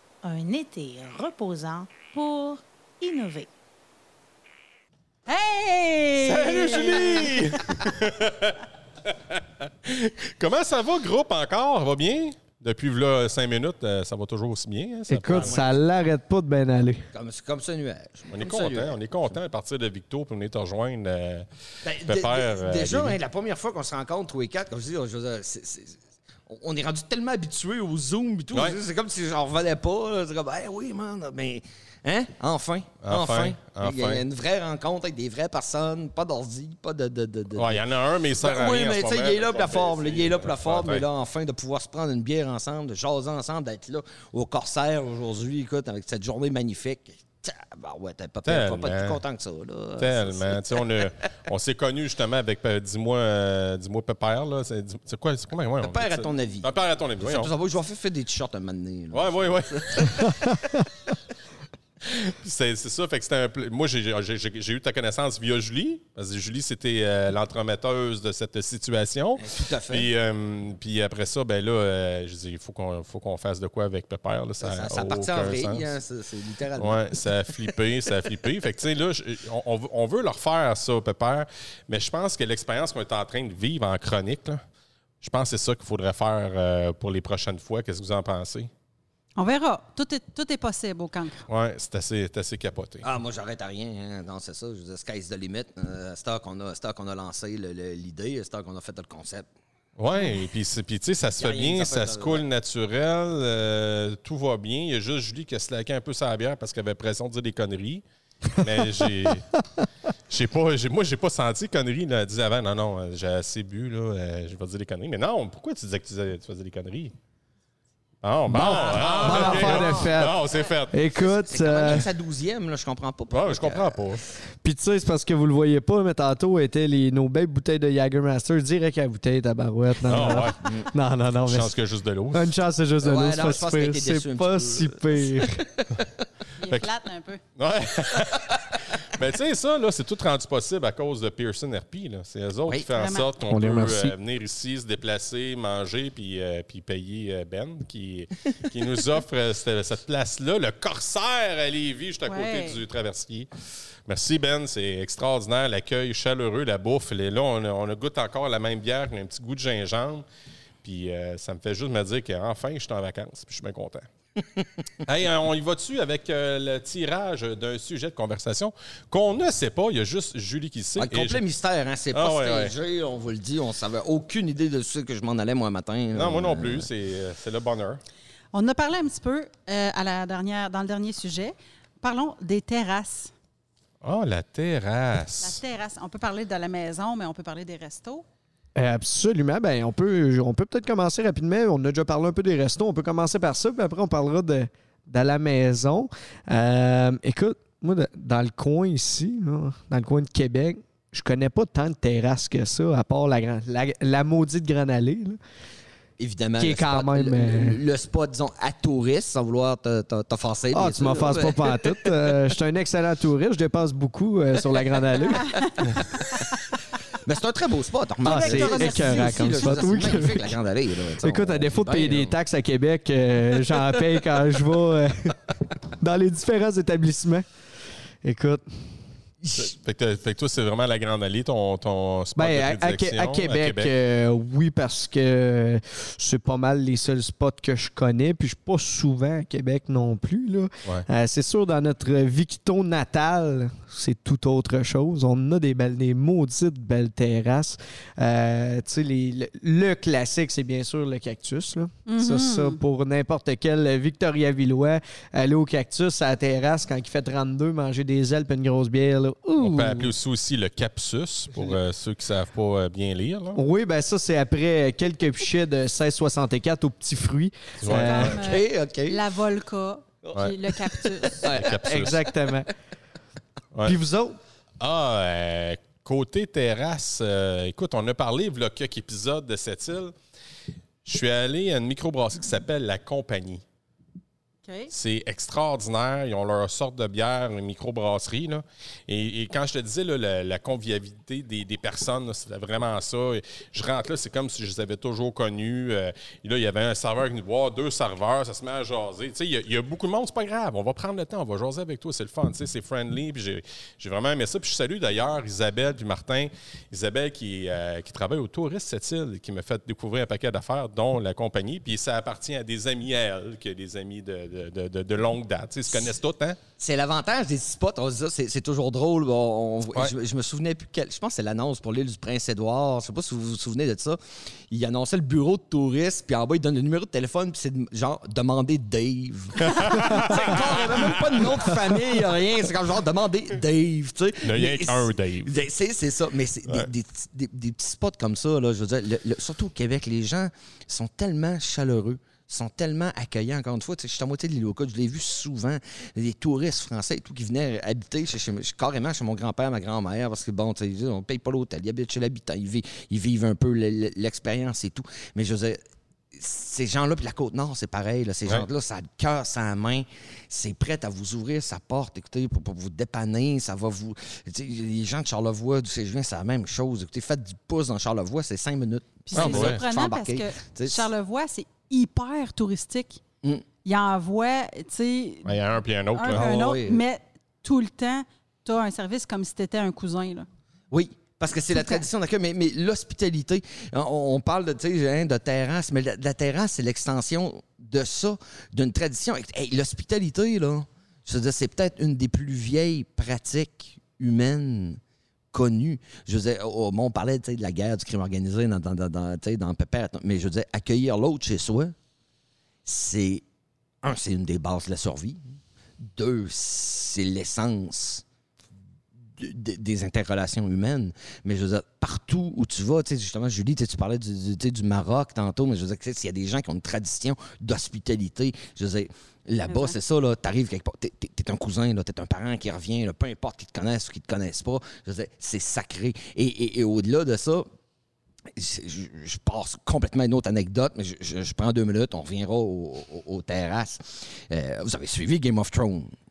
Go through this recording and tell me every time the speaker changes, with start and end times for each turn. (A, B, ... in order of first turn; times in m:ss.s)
0:00.2-0:03.5 A
0:05.3-0:07.4 B
0:06.2-0:15.6 C
0:15.1-0:17.1 D
0:15.3-0:15.8 E
0:17.1-0:19.0 E
0:18.3-0:21.5 C
0:21.8-0:37.8 E
0:22.0-0:23.2 C
0:28.5-0:28.8 C
0:33.0-0:34.2 C
0:37.6-0:41.1 C
0:38.4-0:51.0 E
0:48.4-0:49.2 C
0:50.0-0:57.5 C
0:55.8-1:00.8 E
0:59.1-1:00.4 C
1:02.1-1:15.9 C
1:09.4-1:10.1 E
1:14.6-1:17.6 E
1:16.8-1:24.6 C
1:25.2-1:28.7 C
1:29.4-1:31.4 B
1:31.5-1:33.1 C
1:33.0-1:39.5 E
1:40.0-1:48.0 C
1:41.4-1:42.4 E
1:48.6-1:49.5 C
1:50.3-1:57.1 C
1:58.2-2:01.0 C
1:58.5-2:02.1 D
1:58.6-2:00.3 E
2:01.2-2:04.2 E
2:03.3-2:04.2 C
2:04.6-2:11.8 D
2:10.1-2:10.6 C
2:10.5-2:10.9 E
2:11.4-2:12.5 C
2:12.3-2:15.6 D
2:13.0-2:16.1 E
2:16.6-2:17.4 B
2:17.6-2:33.5 C
2:23.0-2:23.3 B
2:23.5-2:24.2 D
2:32.3-2:32.8 B
2:34.1-2:40.3 C
2:40.8-2:44.1 C
2:45.0-2:51.4 C
2:51.0-2:56.9 E
2:52.1-2:52.7 C
2:56.1-2:58.0 C
2:58.5-3:03.3 B
3:04.0-3:05.6 C
3:05.4-3:08.2 B
3:08.8-3:25.4 D
3:26.2-3:32.2 E
3:26.6-3:27.8 D
3:30.7-3:36.0 D
3:35.2-3:36.8 B
3:37.2-3:42.4 E
3:38.2-3:40.6 D
3:38.4-3:39.9 B
3:41.2-3:45.4 D
3:46.0-3:47.4 D
3:48.2-3:48.8 D
3:49.4-3:49.7 E
3:49.6-3:53.9 C
3:52.4-4:20.1 D
4:12.1-4:12.8 B
4:19.6-4:23.6 C
4:23.6-4:28.4 D
4:27.8-4:28.4 C
4:27.9-4:31.6 B
4:28.3-4:29.2 E
4:31.4-4:32.5 E
4:31.5-4:32.2 C
4:31.8-4:32.7 D
4:33.8-4:34.4 D
4:34.8-4:40.1 C
4:41.0-4:43.6 C
4:44.6-4:44.9 B
4:44.9-5:16.6 C
5:16.8-5:24.2 E
5:24.7-5:55.8 E
5:29.6-5:31.3 C
5:34.4-5:35.5 C
5:56.3-6:11.1 E
6:09.3-6:13.2 B
6:09.4-6:09.8 C
6:13.8-6:20.5 B
6:15.4-6:16.4 C
6:16.3-6:17.0 E
6:20.9-6:35.0 E
6:21.7-6:22.1 B
6:35.5-6:41.9 E
6:42.8-6:43.4 E
6:44.0-6:45.6 E
6:46.1-6:48.2 E
6:49.4-7:07.7 E
6:59.7-7:00.0 B
7:08.6-7:16.1 E